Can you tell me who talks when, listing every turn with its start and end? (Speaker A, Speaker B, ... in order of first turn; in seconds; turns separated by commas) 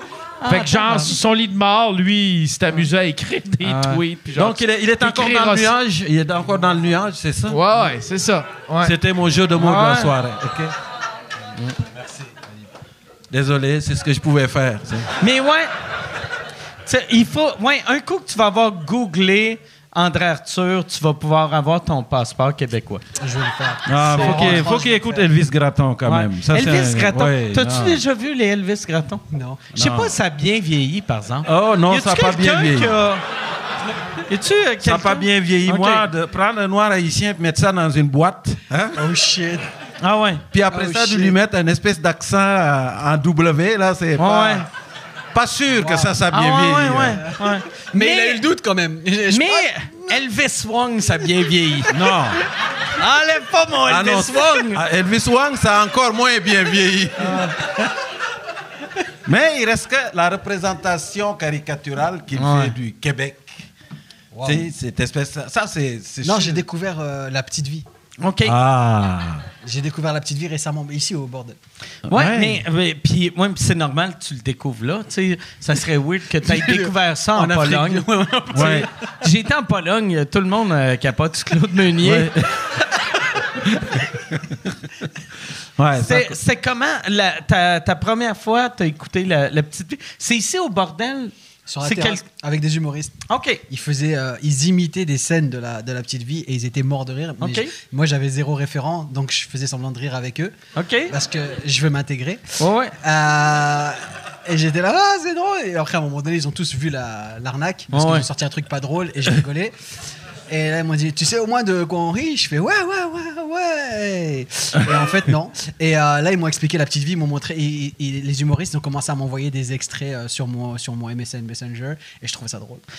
Speaker A: 0.4-1.2, Speaker B: 0.5-5.7, Speaker A: 3.6-4.0, Speaker C: 4.3-7.6, Speaker B: 7.5-8.9, Speaker C: 8.8-10.7, Speaker A: 9.6-10.1, Speaker C: 13.3-15.1, Speaker A: 15.2-15.7, Speaker A: 16.8-23.0, Speaker D: 23.2-25.3, Speaker C: 23.9-28.0, Speaker A: 24.1-24.7, Speaker A: 26.1-29.2, Speaker D: 29.3-29.6, Speaker C: 29.7-30.1, Speaker A: 29.7-33.2, Speaker C: 31.4-33.0, Speaker A: 34.3-36.0, Speaker C: 34.8-39.0, Speaker D: 38.9-39.7, Speaker A: 40.0-40.4, Speaker C: 40.5-44.6, Speaker D: 40.7-41.4, Speaker A: 44.2-44.6, Speaker C: 45.3-47.2, Speaker D: 45.7-46.2, Speaker A: 46.3-48.4, Speaker D: 47.2-50.2, Speaker A: 49.3-52.0, Speaker C: 51.9-52.4, Speaker A: 52.9-54.8, Speaker C: 53.9-57.5, Speaker A: 57.2-57.6, Speaker C: 59.2-63.7, Speaker A: 62.3-62.7, Speaker D: 64.3-64.7, Speaker C: 64.4-66.6, Speaker D: 66.2-67.8, Speaker A: 68.2-68.5, Speaker C: 68.4-69.5, Speaker D: 69.6-71.6, Speaker C: 72.1-72.6, Speaker A: 72.1-78.0, Speaker D: 76.4-78.9, Speaker C: 78.5-78.9, Speaker A: 78.6-82.3, Speaker C: 82.0-82.7, Speaker C: 83.6-84.6, Speaker C: 85.8-86.4, Speaker A: 85.9-92.2, Speaker D: 91.7-100.5, Speaker A: 93.3-93.6, Speaker A: 97.4-97.7, Speaker A: 100.7-101.1, Speaker D: 101.1-109.7, Speaker A: 102.6-102.9, Speaker A: 107.9-108.2, Speaker D: 110.5-122.8